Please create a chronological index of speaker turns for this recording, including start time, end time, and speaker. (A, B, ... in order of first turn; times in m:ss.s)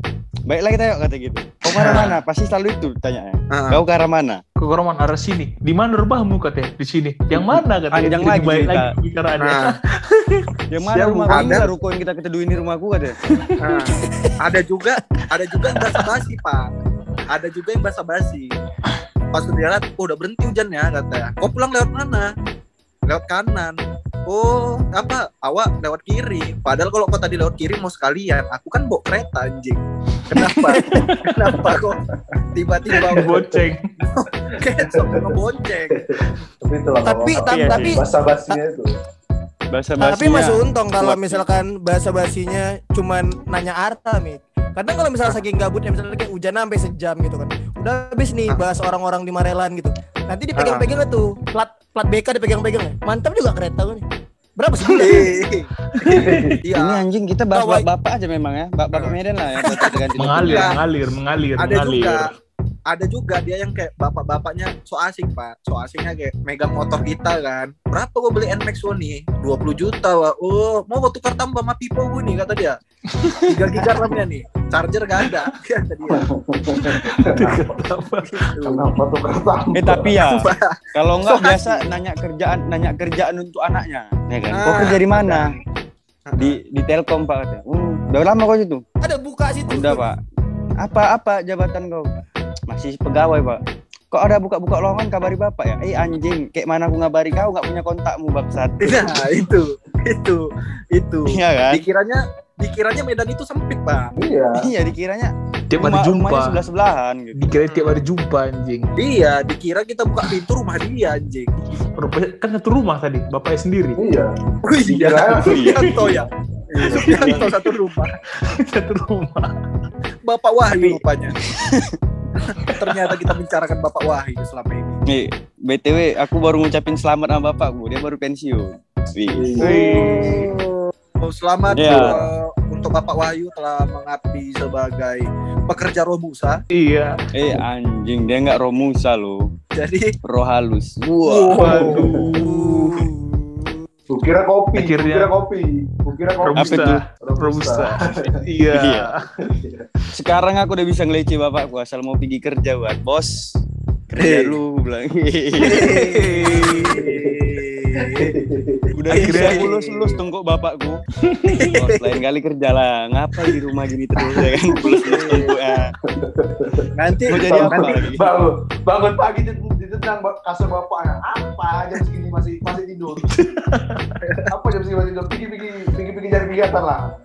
0:00.5-0:04.4 A
0:01.7-0:02.2 B
0:01.7-0:02.1 C
0:03.5-0:03.8 C
0:04.6-0:10.5 B
0:07.9-0:08.9 A
0:09.4-0:09.7 C
0:10.7-0:13.2 A
0:10.9-0:11.7 D
0:11.3-0:11.7 C
0:13.3-0:13.6 B
0:13.6-0:16.7 C
0:13.9-0:14.4 E
0:17.3-0:18.5 C
0:19.3-0:22.3 C
0:23.1-0:32.0 C
0:30.7-0:31.0 E
0:32.5-0:33.4 C
0:33.1-0:33.8 B
0:34.1-0:36.1 C
0:34.7-0:35.3 D
0:35.9-0:38.9 D
0:37.0-0:38.0 E
0:37.4-0:38.0 A
0:39.7-0:41.4 A
0:40.0-0:54.0 E
0:50.6-0:50.8 C
0:54.6-0:55.4 E
0:54.9-0:57.0 C
0:55.9-0:56.6 B
0:56.2-0:56.6 D
0:56.8-1:00.8 A
0:57.5-0:57.8 E
0:59.7-1:00.8 C
1:00.2-1:02.3 B
1:01.6-1:02.2 C
1:02.9-1:12.8 C
1:13.1-1:14.0 B
1:13.4-1:16.2 C
1:16.0-1:17.6 D
1:16.7-1:18.8 B
1:18.6-1:20.2 D
1:19.7-1:20.4 A
1:20.2-1:21.9 C
1:20.9-1:25.5 A
1:24.5-1:25.6 C
1:26.3-1:26.6 C
1:26.4-1:28.8 A
1:29.0-1:30.1 E
1:29.7-1:30.2 A
1:30.8-1:32.1 A
1:32.7-1:33.6 A
1:34.1-1:39.2 A
1:38.8-1:44.1 C
1:41.3-1:41.8 A
1:44.2-1:44.7 D
1:44.6-1:47.5 A
1:45.7-1:46.7 B
1:47.3-1:48.9 B
1:47.6-1:48.0 C
1:49.0-1:51.5 C
1:52.0-1:54.0 B
1:54.0-1:54.3 D
1:54.6-1:58.2 C
1:54.9-1:55.9 D
1:54.9-1:56.0 A
1:56.7-1:57.4 D
1:56.9-1:57.6 B
1:58.4-1:59.5 B
2:00.2-2:01.4 C
2:01.5-2:02.0 A
2:02.4-2:05.0 C
2:02.6-2:03.2 B
2:05.1-2:09.6 A
2:09.3-2:10.4 D
2:09.6-2:10.5 B
2:09.6-2:16.6 C
2:11.7-2:12.2 A
2:11.9-2:12.1 B
2:16.7-2:17.2 B
2:17.3-2:19.5 A
2:19.8-2:20.1 C
2:20.2-2:22.0 A
2:21.2-2:23.1 C
2:21.6-2:22.9 B
2:21.6-2:22.3 D
2:22.4-2:23.1 E
2:24.1-2:28.3 D
2:24.8-2:25.3 B
2:26.4-2:29.3 B
2:26.6-2:27.0 A
2:28.7-2:29.1 A
2:29.4-2:29.8 D
2:30.1-2:33.6 A
2:34.1-2:36.0 A
2:34.2-2:34.6 C
2:35.6-2:38.3 C
2:35.7-2:36.9 B
2:36.8-2:38.9 D
2:39.0-2:41.0 A
2:39.1-2:40.1 C
2:39.2-2:39.7 B
2:41.2-2:41.7 B
2:41.5-2:42.2 C
2:41.7-2:45.9 A
2:45.0-2:45.6 C
2:46.1-2:53.4 D
2:46.9-2:48.0 C
2:47.3-2:48.4 A
2:53.3-2:54.2 B
2:54.2-2:54.5 C
2:54.5-2:57.1 D